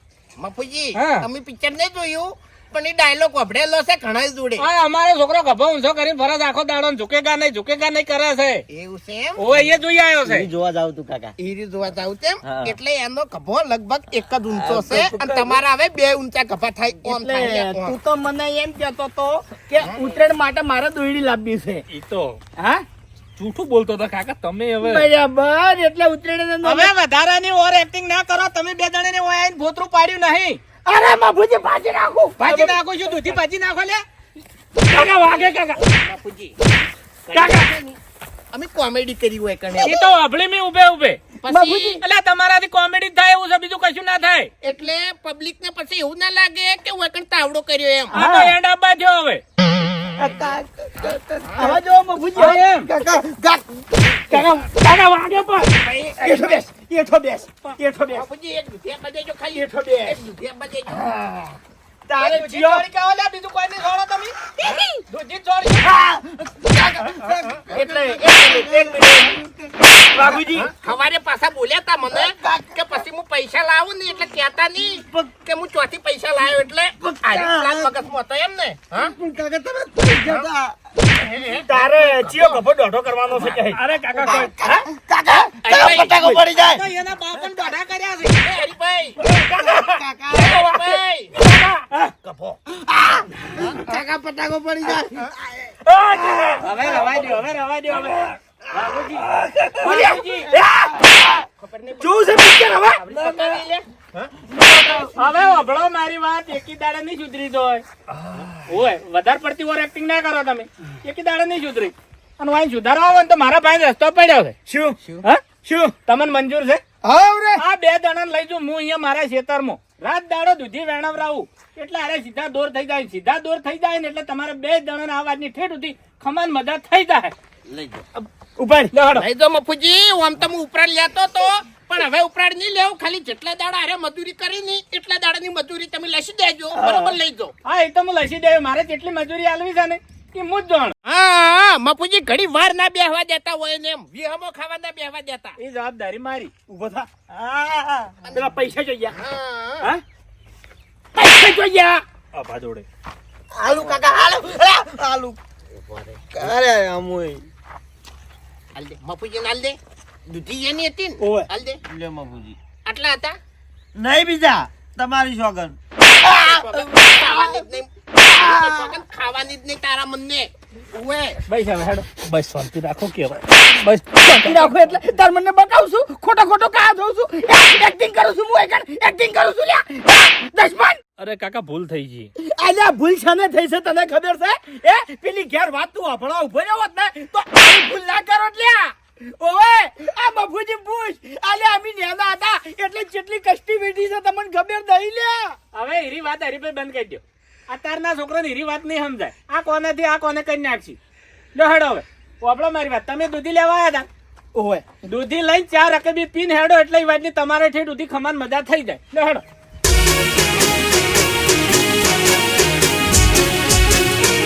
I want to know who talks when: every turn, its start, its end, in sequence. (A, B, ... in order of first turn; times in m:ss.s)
0:00.4-0:04.6 A
0:00.9-0:01.2 B
0:04.6-0:08.6 B
0:08.7-0:09.4 A
0:09.4-0:10.5 B
0:10.2-0:11.3 C
0:11.4-0:18.0 A
0:12.4-0:12.7 C
0:14.8-0:15.3 D
0:17.0-0:21.8 D
0:21.9-0:22.4 E
0:23.4-0:25.1 E
0:24.8-0:26.9 D
0:26.6-0:30.6 B
0:30.8-0:32.7 D
0:32.4-0:34.0 B
0:34.9-0:35.6 E
0:34.9-0:35.8 B
0:35.0-0:36.5 A
0:37.3-0:38.0 A
0:38.5-0:40.0 A
0:39.8-0:41.2 B
0:41.4-0:42.0 A
0:41.5-0:42.0 D
0:42.0-0:44.5 B
0:44.6-0:48.1 A
0:48.1-0:49.4 B
0:48.1-0:48.5 D
0:50.2-0:51.8 C
0:51.6-0:53.4 D
0:52.4-0:52.9 B
0:52.4-0:53.6 C
0:54.1-0:54.7 D
0:55.6-0:56.4 B
0:56.2-0:58.2 D
0:58.1-1:01.1 A
0:59.5-1:00.2 D
1:01.0-1:01.5 D
1:02.1-1:02.8 D
1:02.2-1:04.4 B
1:05.0-1:05.9 B
1:05.8-1:10.7 C
1:07.1-1:09.4 D
1:10.1-1:10.7 D
1:10.8-1:19.1 A
1:12.1-1:12.8 C
1:17.0-1:18.0 C
1:18.9-1:20.8 C
1:21.2-1:21.6 A
1:21.5-1:23.8 D
1:22.2-1:22.5 A
1:23.4-1:24.8 E
1:24.1-1:26.8 C
1:25.6-1:26.4 A
1:26.2-1:28.5 B
1:28.4-1:29.2 A
1:29.2-1:30.7 C
1:29.5-1:30.4 E
1:30.3-1:31.3 A
1:31.4-1:31.8 E
1:31.8-1:32.3 D
1:32.9-1:35.7 C
1:33.6-1:35.0 A
1:36.1-1:36.6 D
1:36.6-1:39.2 B
1:39.4-1:40.0 C
1:39.8-1:41.4 D
1:39.8-1:40.5 B
1:41.6-1:42.4 A
1:42.0-1:43.0 D
1:43.0-1:43.8 A
1:44.5-1:45.1 C
1:45.1-1:47.8 B
1:48.7-1:54.5 B
1:54.7-1:55.0 D
1:55.6-1:55.9 D
1:56.0-1:56.8 B
1:57.0-1:57.6 D
1:57.6-2:07.3 B
2:07.7-2:08.0 A
2:08.6-2:08.9 D
2:09.0-2:09.2 B
2:09.1-2:17.5 A
2:16.8-2:17.1 D
2:17.6-2:20.9 B
2:21.0-2:25.6 A
2:25.6-2:26.5 B
2:26.7-2:27.1 D
2:27.3-2:28.2 C
2:28.3-2:29.2 D
2:29.1-2:29.9 A
2:31.1-2:32.0 D
2:32.3-2:32.8 E
2:33.5-2:35.4 C
2:36.3-2:37.4 C
2:38.7-2:41.8 A
2:41.2-2:41.5 D
2:41.8-2:42.6 C
2:42.8-2:43.4 A
2:43.9-2:47.5 C
2:46.0-2:51.4 A
2:48.4-2:48.6 C
2:51.5-2:52.1 B
2:52.2-2:54.7 E
2:54.2-3:01.0 D
3:01.2-3:02.3 E
3:02.4-3:15.6 D
3:15.7-3:21.0 B
3:21.5-3:24.1 B
3:24.5-3:24.9 D
3:25.0-3:29.4 B